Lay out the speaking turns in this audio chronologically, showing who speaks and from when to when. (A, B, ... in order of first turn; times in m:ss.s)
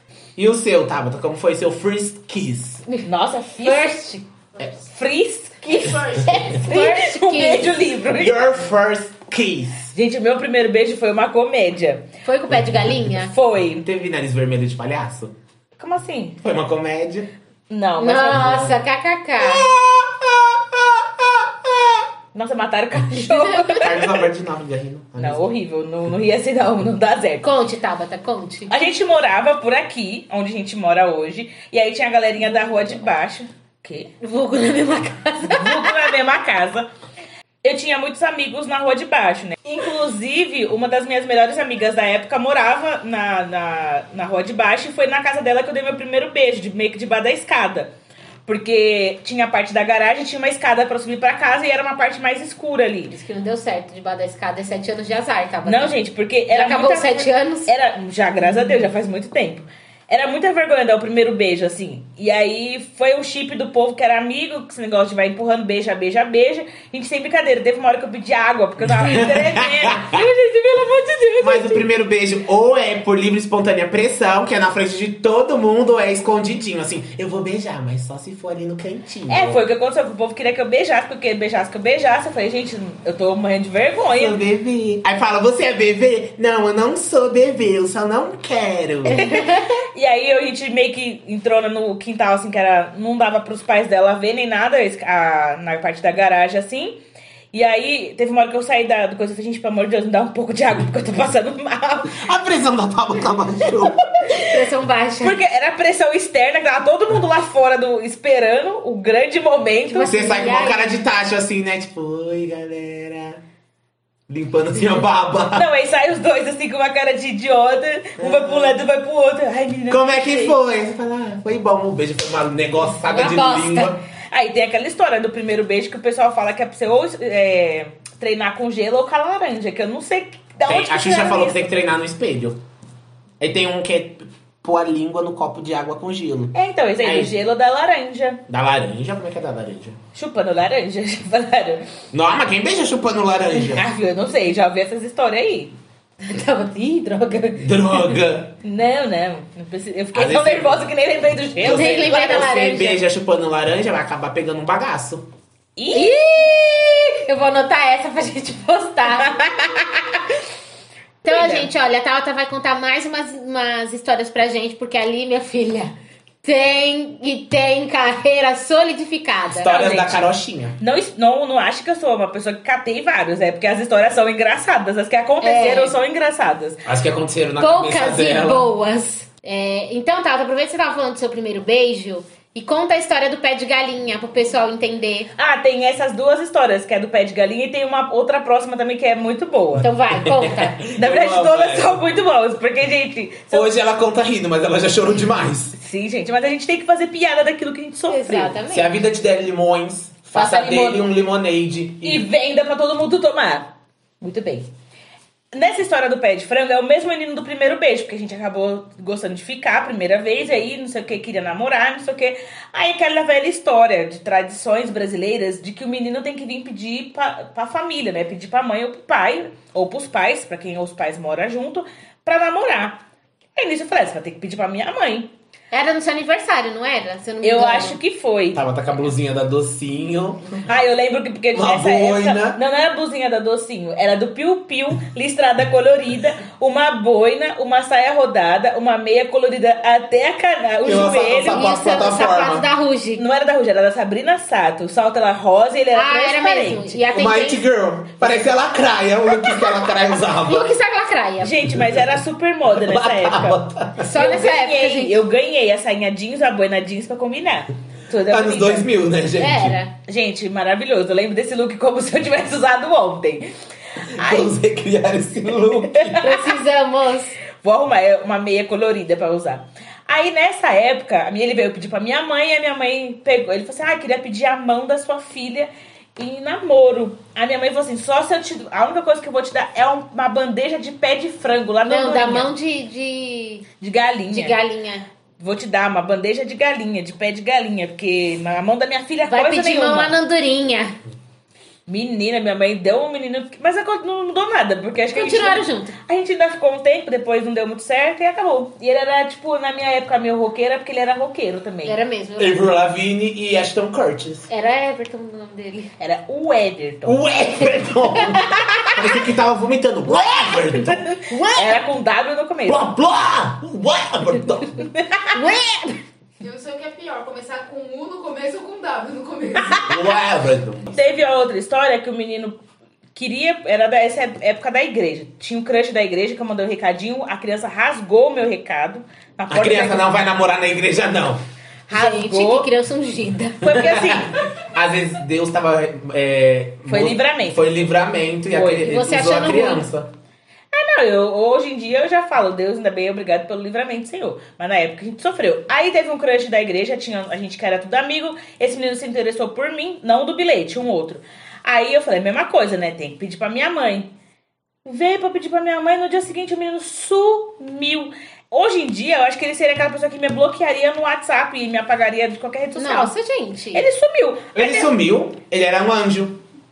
0:00.4-0:02.8 A
0:03.0-0:04.0 B
0:03.6-0:04.2 C
0:04.8-0:08.4 B
0:06.5-0:07.8 C
0:08.1-0:09.9 A
0:09.9-0:12.1 B
0:12.2-0:13.3 C
0:13.2-0:13.8 B
0:13.8-0:15.3 A
0:15.8-0:16.4 B
0:16.4-0:17.3 A
0:17.7-0:18.7 B
0:18.0-0:19.7 C
0:19.4-0:22.1 A
0:22.3-0:24.1 B
0:23.1-0:23.9 C
0:23.8-0:25.4 A
0:25.2-0:27.5 B
0:27.4-0:28.7 C
0:28.7-0:34.1 B
0:34.2-0:36.1 C
0:35.4-0:36.9 B
0:37.6-0:47.9 B
0:48.5-0:53.1 B
0:53.1-0:56.0 C
0:55.7-1:11.8 B
0:56.5-0:57.7 C
1:08.8-1:10.2 A
1:11.4-1:19.6 A
1:19.3-1:24.4 B
1:24.1-1:29.2 A
1:29.1-1:29.8 C
1:29.2-1:37.0 B
1:37.5-1:42.3 B
1:42.1-1:44.0 A
1:44.4-1:45.4 C
1:45.2-1:50.2 B
1:49.9-1:51.0 C
1:50.0-1:53.4 A
1:54.3-1:55.7 A
1:55.5-2:00.6 B
1:58.2-1:58.8 A
1:59.9-2:04.0 A
2:03.1-2:03.9 C
2:04.3-2:11.7 B
2:10.7-2:12.6 A
2:13.4-2:17.3 A
2:16.5-2:18.4 B
2:18.5-2:20.0 A
2:20.2-2:21.9 B
2:22.1-2:23.9 A
2:23.6-2:25.7 B
2:26.2-2:28.1 C
2:27.6-2:28.6 A
2:28.6-2:32.8 B
2:30.1-2:30.8 A
2:31.6-2:35.3 A
2:31.6-2:33.0 C
2:35.8-2:36.2 B
2:35.9-2:40.1 C
2:41.2-2:49.8 C
2:41.3-2:41.7 B
2:49.6-2:50.8 A
2:49.6-2:50.3 B
2:50.8-2:56.8 B
2:55.4-2:55.9 C
2:56.8-2:58.7 A
2:57.6-3:05.3 C
3:05.4-3:09.9 B
3:09.8-3:10.8 C
3:10.1-3:12.0 A
3:11.0-3:13.8 B
3:13.5-3:15.8 A
3:15.8-3:18.6 B
3:18.1-3:18.9 C
3:18.7-3:22.3 A
3:20.3-3:21.0 B
3:22.0-3:24.7 B
3:25.5-3:43.0 B
3:43.6-3:45.3 B
3:45.7-3:48.0 C
3:47.4-3:48.6 B
3:48.5-3:50.7 A
3:50.7-4:01.7 B
3:51.5-3:52.6 A
4:00.8-4:02.7 A
4:01.5-4:03.2 C
4:03.2-4:07.0 B
4:05.9-4:07.6 C
4:07.1-4:10.7 A
4:09.4-4:11.6 C
4:11.4-4:13.6 B
4:11.7-4:12.1 A
4:12.7-4:14.1 A
4:14.0-4:15.2 C
4:14.1-4:18.9 B
4:18.3-4:19.8 A
4:19.4-4:19.9 C
4:20.1-4:23.5 B
4:24.1-4:24.5 B
4:24.1-4:26.3 A
4:25.8-4:26.6 B
4:26.2-4:27.4 C
4:27.6-4:42.5 B
4:41.9-4:43.7 C
4:43.8-4:44.6 B
4:44.3-4:45.1 C
4:45.4-4:50.1 B
4:49.3-4:51.0 C
4:51.9-5:02.0 B
4:55.1-4:55.9 C
5:01.8-5:02.6 C
5:02.4-5:04.5 A
5:04.5-5:05.9 C
5:06.0-5:07.2 B
5:07.0-5:11.7 A
5:08.1-5:09.0 C
5:10.6-5:12.8 B
5:12.7-5:14.8 A
5:14.8-5:15.4 B
5:15.3-5:16.0 C
5:16.4-5:20.0 D
5:19.9-5:21.0 A
5:20.9-5:22.6 B
5:23.2-5:30.1 B
5:29.5-5:31.4 A
5:31.9-5:32.7 B
5:31.9-5:33.7 C
5:33.6-5:34.5 B
5:33.7-5:40.1 A
5:36.9-5:37.7 B
5:38.5-5:38.9 B
5:38.8-5:39.8 C
5:40.7-5:54.1 B
5:54.8-6:03.1 B
6:02.8-6:03.8 C
6:03.7-6:04.9 B
6:04.6-6:06.4 A